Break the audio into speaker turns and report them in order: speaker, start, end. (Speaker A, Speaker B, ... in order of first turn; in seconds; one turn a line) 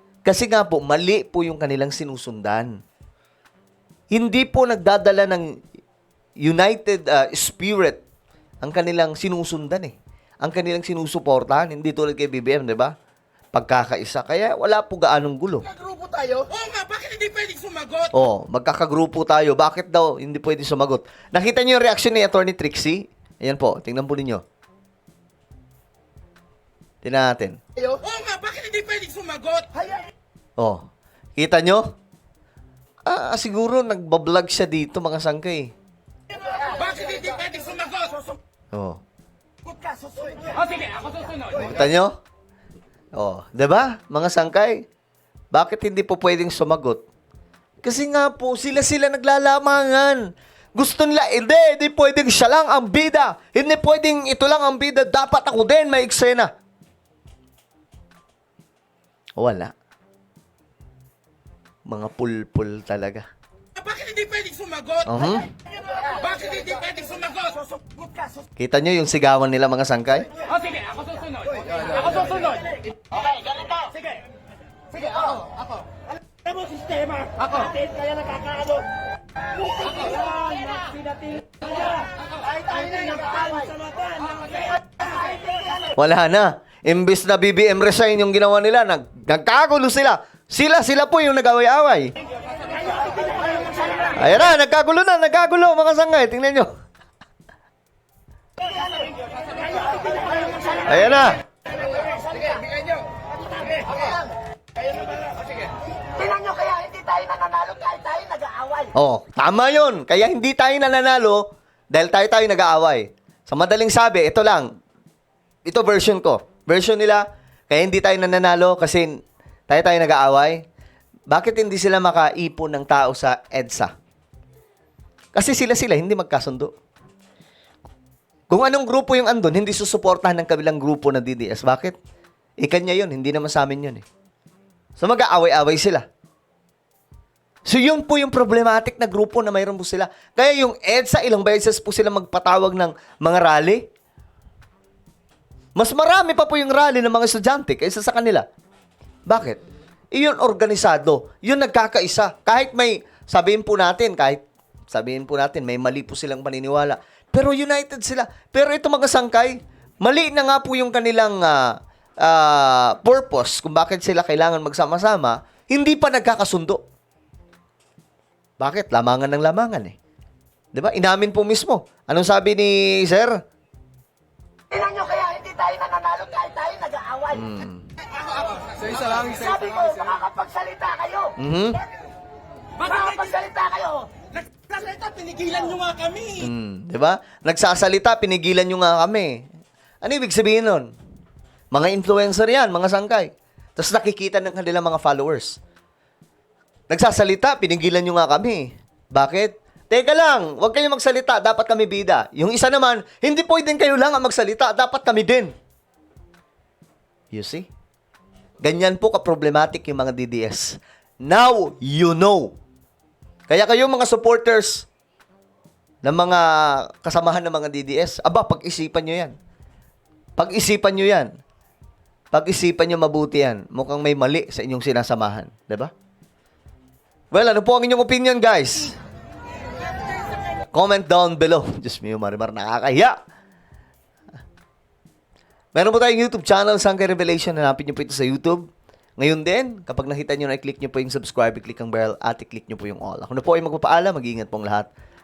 Speaker A: 0.2-2.7
Speaker A: 4.1-5.5
Speaker A: 6.4-8.0
Speaker A: 8.6-12.9
Speaker A: 13.5-15.7
Speaker B: 15.9-18.1
Speaker A: 18.1-24.4
Speaker A: 27.0-27.6
Speaker B: 27.9-29.8
Speaker A: 30.6-31.9
Speaker A: 33.1-35.7
Speaker B: 36.8-38.2
Speaker A: 38.7-39.0
Speaker C: 39.7-40.7
Speaker A: 41.5-42.2
Speaker A: 43.1-44.9
Speaker A: 45.5-47.0
Speaker A: 47.8-56.5
Speaker A: 59.4-59.7
Speaker A: 61.9-63.3
Speaker B: 63.8-65.1
Speaker A: 65.0-65.5
Speaker B: 66.2-67.7
Speaker A: 68.6-70.3
Speaker B: 72.0-72.4
Speaker C: 80.0-80.8
Speaker C: 82.7-83.8
Speaker A: 86.0-92.1
Speaker A: 94.2-96.7
Speaker C: 100.0-100.8
Speaker A: 100.8-101.4
Speaker C: 102.0-102.6
Speaker C: 106.1-108.9
Speaker A: 108.9-114.7
Speaker A: 115.7-119.1
Speaker A: 119.7-120.6
Speaker A: 121.3-123.9
Speaker A: 125.3-126.7
Speaker A: 128.5-132.0
Speaker A: 132.6-134.1
Speaker A: 135.0-136.1
Speaker A: 137.7-143.9
Speaker A: 145.8-148.5
Speaker A: 149.3-149.6
Speaker A: 150.1-166.8
Speaker A: 168.6-169.9
Speaker A: 170.7-173.3
Speaker C: 174.7-177.4
Speaker A: 177.3-177.9
Speaker C: 178.8-181.3
Speaker A: 181.4-181.8
Speaker C: 182.8-184.3
Speaker B: 184.4-186.4
Speaker A: 186.4-189.4
Speaker A: 190.0-190.9
Speaker A: 191.7-195.6
Speaker A: 196.9-205.5
Speaker A: 207.3-207.7
Speaker A: 208.6-212.6
Speaker A: 213.5-214.9
Speaker A: 216.0-219.3
Speaker A: 220.4-221.3
Speaker A: 222.3-225.9
Speaker A: 227.3-228.9
Speaker A: 230.7-233.2
Speaker A: 235.8-238.7
Speaker A: 239.2-244.9